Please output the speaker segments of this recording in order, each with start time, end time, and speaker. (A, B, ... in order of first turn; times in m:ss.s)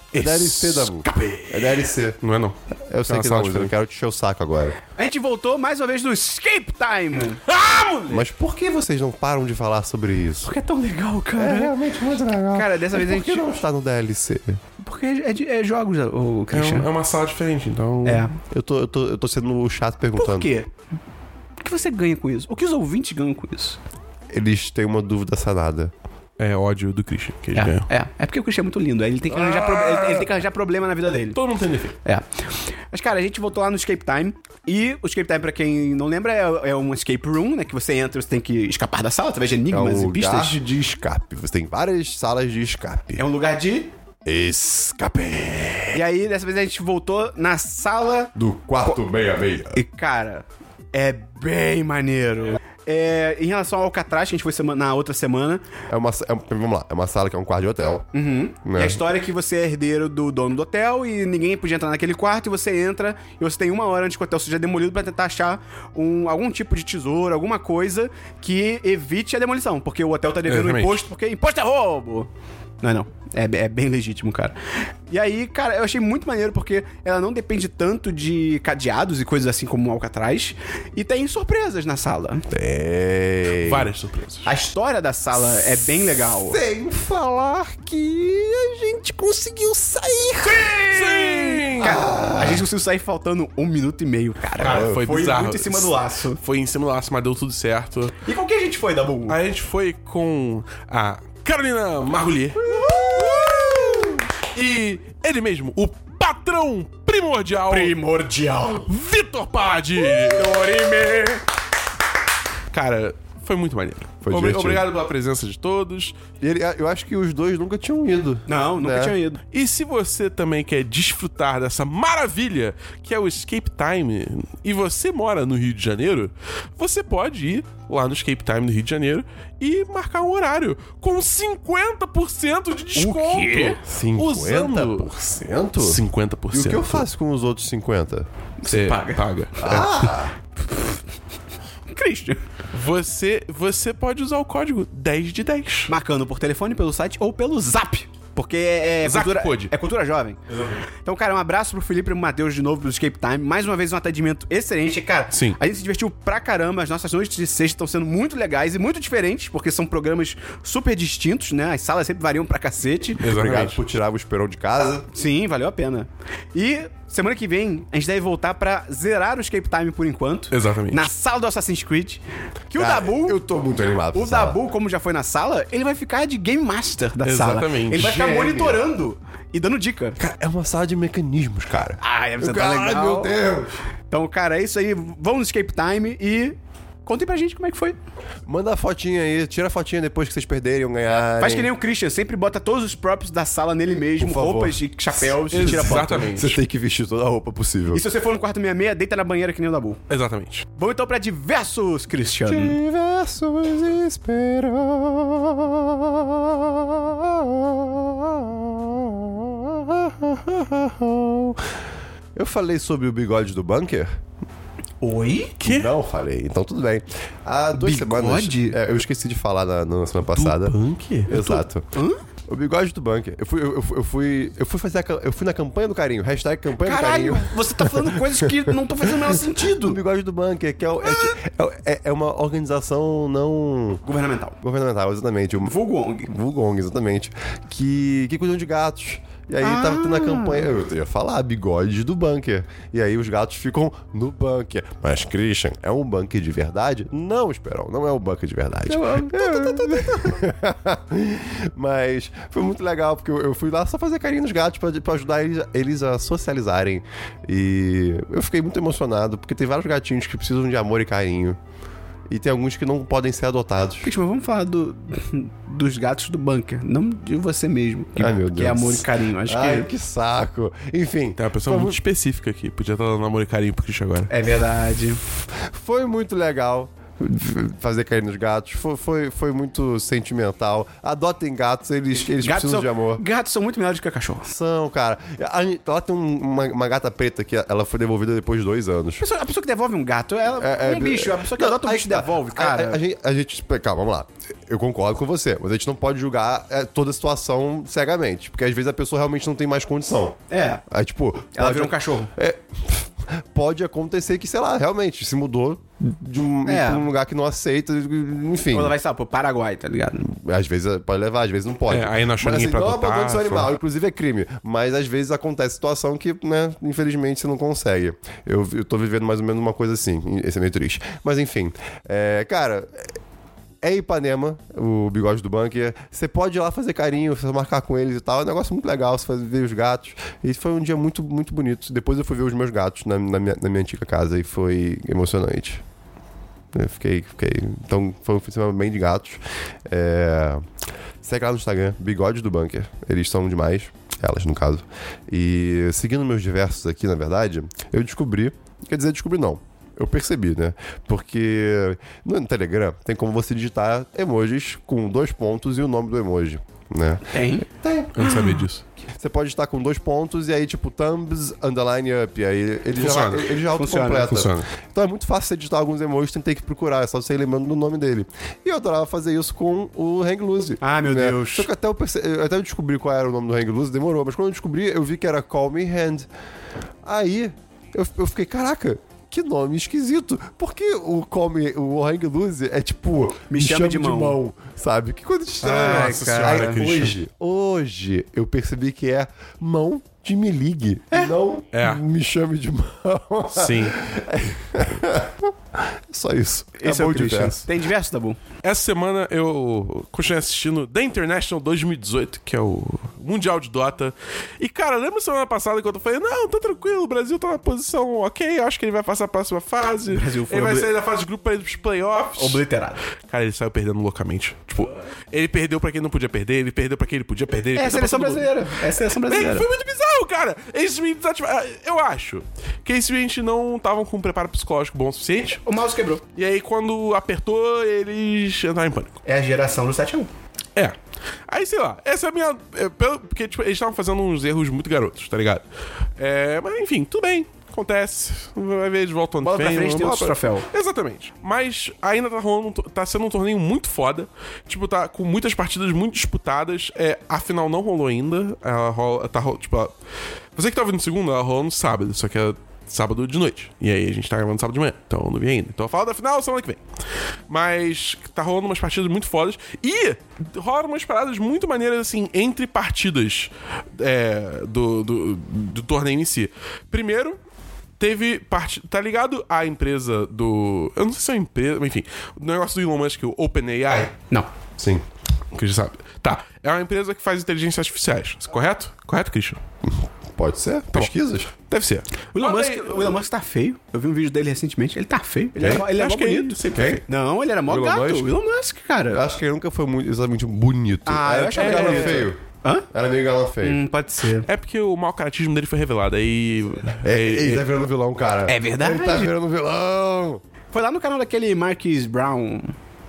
0:00.1-0:03.7 A
0:00.1-0:02.2 B
0:02.9-0:04.8 B
0:04.9-0:07.4 C
0:07.4-0:08.2 A
0:08.1-0:10.5 B
0:10.4-0:11.8 C
0:11.4-0:14.6 B
0:12.5-0:13.4 C
0:14.8-0:16.9 C
0:16.5-0:18.3 A
0:18.0-0:18.3 C
0:18.5-0:20.5 B
0:20.2-0:20.7 C
0:21.6-0:23.8 C
0:24.3-0:25.9 B
0:26.4-0:27.9 A
0:27.5-0:31.4 C
0:29.4-0:30.2 A
0:31.3-0:32.0 A
0:32.9-0:40.6 C
0:39.7-0:43.2 B
0:43.2-0:43.9 C
0:44.2-0:46.0 B
0:45.9-0:48.3 C
0:48.3-0:49.8 B
0:49.7-0:55.6 C
0:55.9-0:58.1 B
0:58.1-1:12.3 C
0:58.6-0:59.0 B
1:10.5-1:11.0 A
1:12.8-1:14.6 C
1:15.1-1:22.4 C
1:22.5-1:23.9 B
1:23.6-1:24.5 A
1:24.4-1:26.6 C
1:26.4-1:30.8 B
1:30.4-1:36.4 C
1:30.8-1:32.1 A
1:31.8-1:32.6 B
1:34.6-1:38.2 A
1:34.6-1:35.0 B
1:38.2-1:39.4 C
1:39.3-1:44.0 A
1:42.6-1:44.2 C
1:42.8-1:44.0 B
1:44.5-1:47.9 A
1:47.6-1:48.9 C
1:48.9-1:50.9 A
1:50.0-1:51.4 C
1:52.7-1:56.2 A
1:54.2-1:54.8 B
1:56.4-1:59.2 B
1:58.5-1:59.4 C
1:59.5-2:15.2 A
2:13.0-2:13.8 C
2:13.9-2:16.0 B
2:15.8-2:17.1 A
2:16.5-2:18.3 B
2:18.6-2:19.2 C
2:18.7-2:20.1 A
2:19.6-2:20.3 B
2:21.9-2:22.4 C
2:22.7-2:25.9 A
2:25.9-2:30.4 C
2:29.0-2:29.7 A
2:31.0-2:43.3 C
2:35.3-2:35.6 A
2:43.2-2:43.8 A
2:43.2-2:45.1 B
2:45.1-2:53.4 C
2:50.5-2:51.1 A
2:52.8-2:54.6 B
2:54.1-3:00.2 C
2:57.2-2:58.2 A
2:57.9-2:58.8 B
3:00.2-3:03.8 B
3:02.0-3:03.4 C
3:04.1-3:08.0 C
3:08.4-3:11.7 B
3:11.4-3:16.3 C
3:14.2-3:18.0 B
3:15.5-3:16.6 A
3:17.9-3:20.0 C
3:20.1-3:20.6 A
3:20.8-3:22.8 C
3:22.5-3:31.7 B
3:32.4-3:34.1 B
3:35.0-3:35.6 C
3:35.6-3:35.9 A
3:35.6-3:41.9 B
3:37.7-3:38.8 C
3:40.3-3:41.4 A
3:41.3-3:42.2 C
3:42.5-3:54.0 B
3:46.8-3:50.0 C
3:54.0-3:54.6 C
3:54.6-4:21.6 B
3:55.6-3:56.3 C
3:59.6-4:00.7 C
4:08.9-4:10.4 C
4:22.3-4:24.1 B
4:24.0-4:29.9 C
4:28.2-4:32.0 B
4:31.4-4:34.3 A
4:34.3-4:35.2 C
4:35.6-4:43.2 B
4:42.4-4:44.5 C
4:44.5-4:49.2 B
4:49.2-4:53.0 C
4:50.6-5:08.9 B
5:00.5-5:00.8 C
5:01.6-5:02.3 C
5:06.6-5:07.1 C
5:08.7-5:10.3 C
5:10.2-5:23.1 B
5:11.9-5:13.7 A
5:23.8-5:35.8 B
5:36.7-5:40.6 B
5:41.2-5:58.3 B
5:57.3-5:57.7 C
5:58.1-5:58.8 A
5:58.2-5:58.5 C
5:59.2-6:16.3 B
6:03.0-6:03.6 A
6:03.7-6:04.4 C
6:04.2-6:04.6 A
6:10.8-6:11.7 C
6:17.0-6:37.7 B
6:23.5-6:24.4 C
6:25.6-6:27.0 C
6:25.6-6:27.2 A
6:31.7-6:32.0 A
6:33.5-6:34.0 A
6:36.8-6:38.4 C
6:38.6-6:52.6 A
6:50.1-6:50.9 C
6:52.4-6:53.0 C
6:53.3-7:05.6 A
6:57.8-6:59.7 C
7:05.6-7:06.2 C
7:06.3-7:09.2 A
7:09.2-7:10.3 C
7:11.5-7:15.6 A
7:16.2-7:29.9 A
7:19.4-7:20.7 C
7:30.6-7:36.8 A
7:37.5-7:47.4 A
7:48.0-7:54.1 A
7:54.8-7:55.0 B
7:55.5-7:59.6 A
7:59.9-8:01.5 B
8:00.9-8:03.2 A
8:02.3-8:09.2 C
8:05.6-8:07.0 A
8:06.7-8:07.0 B
8:07.7-8:08.3 B
8:09.1-8:12.4 B
8:11.0-8:12.9 C
8:11.6-8:12.3 A
8:12.9-8:13.8 B
8:13.6-8:14.5 C
8:14.4-8:17.6 A
8:17.0-8:20.4 B
8:18.5-8:19.3 C
8:20.7-8:22.7 C